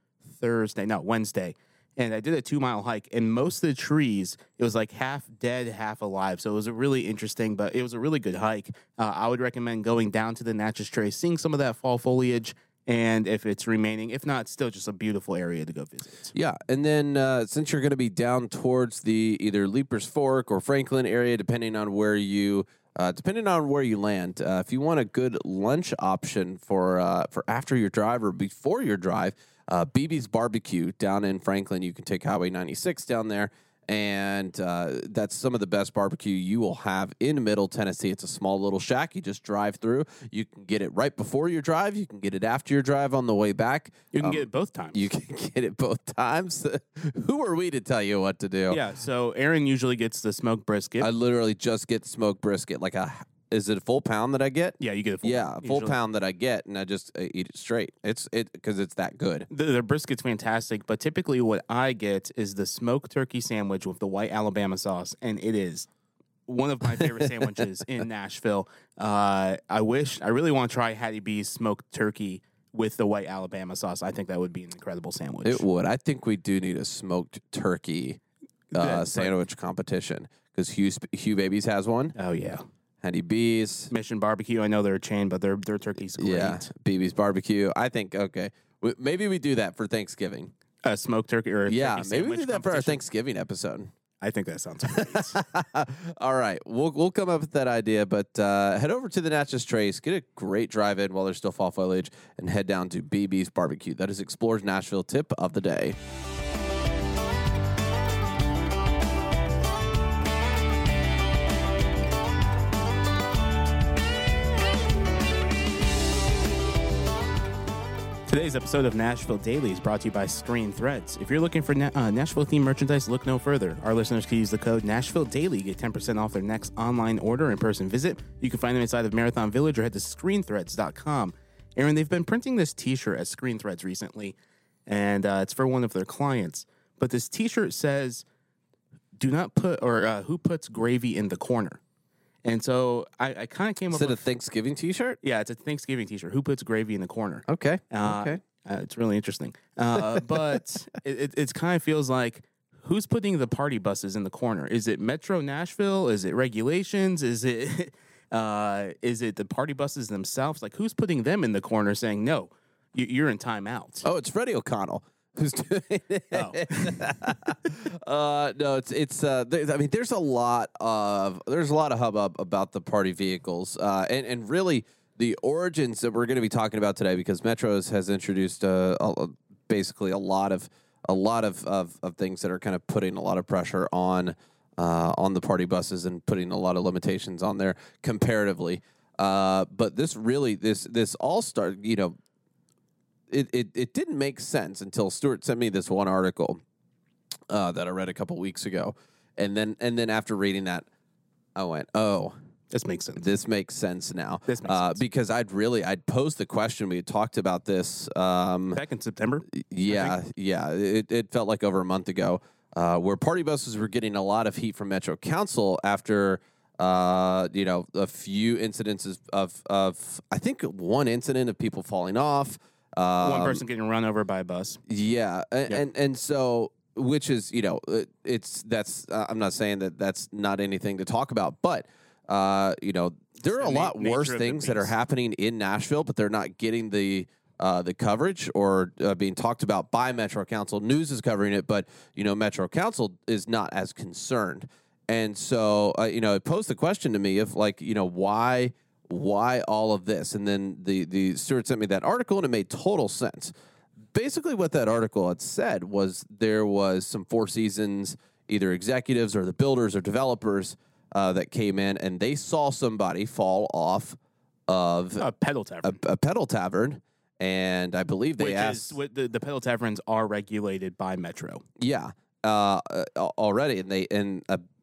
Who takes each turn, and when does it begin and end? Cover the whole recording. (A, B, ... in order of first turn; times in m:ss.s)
0:00.3-0:16.3 A
0:16.3-0:48.8 B
0:44.1-0:45.0 A
0:48.7-0:51.1 A
0:51.0-0:59.5 B
0:54.8-0:56.0 A
0:59.5-1:05.9 A
1:06.5-1:15.6 A
1:15.4-1:18.2 B
1:18.7-1:19.4 A
1:18.7-1:22.1 B
1:22.1-1:22.6 A
1:23.0-1:23.9 B
1:23.9-1:26.7 A
1:26.2-1:30.5 B
1:30.8-1:33.0 A
1:31.7-1:33.9 B
1:34.2-1:35.4 A
1:34.9-1:46.0 B
1:58.3-2:18.2 A
2:19.2-2:21.8 A
2:22.4-2:24.2 A
2:23.9-2:25.2 B
2:25.2-2:44.0 A
2:27.5-2:28.4 B
2:44.0-3:12.1 B
2:46.3-2:47.1 A
3:13.3-3:16.6 B
3:17.5-3:20.8 B
3:21.6-3:22.3 B
3:22.7-3:23.3 A
3:23.2-3:28.8 B
3:24.5-3:25.0 A
3:28.7-3:30.2 A
3:29.5-3:43.6 B
3:43.2-3:44.8 A
3:44.9-4:13.5 B
3:53.5-3:54.9 A
4:14.1-4:25.2 B
4:25.2-4:26.0 A
4:25.8-4:29.0 B
4:28.4-4:31.6 A
4:31.8-4:34.6 B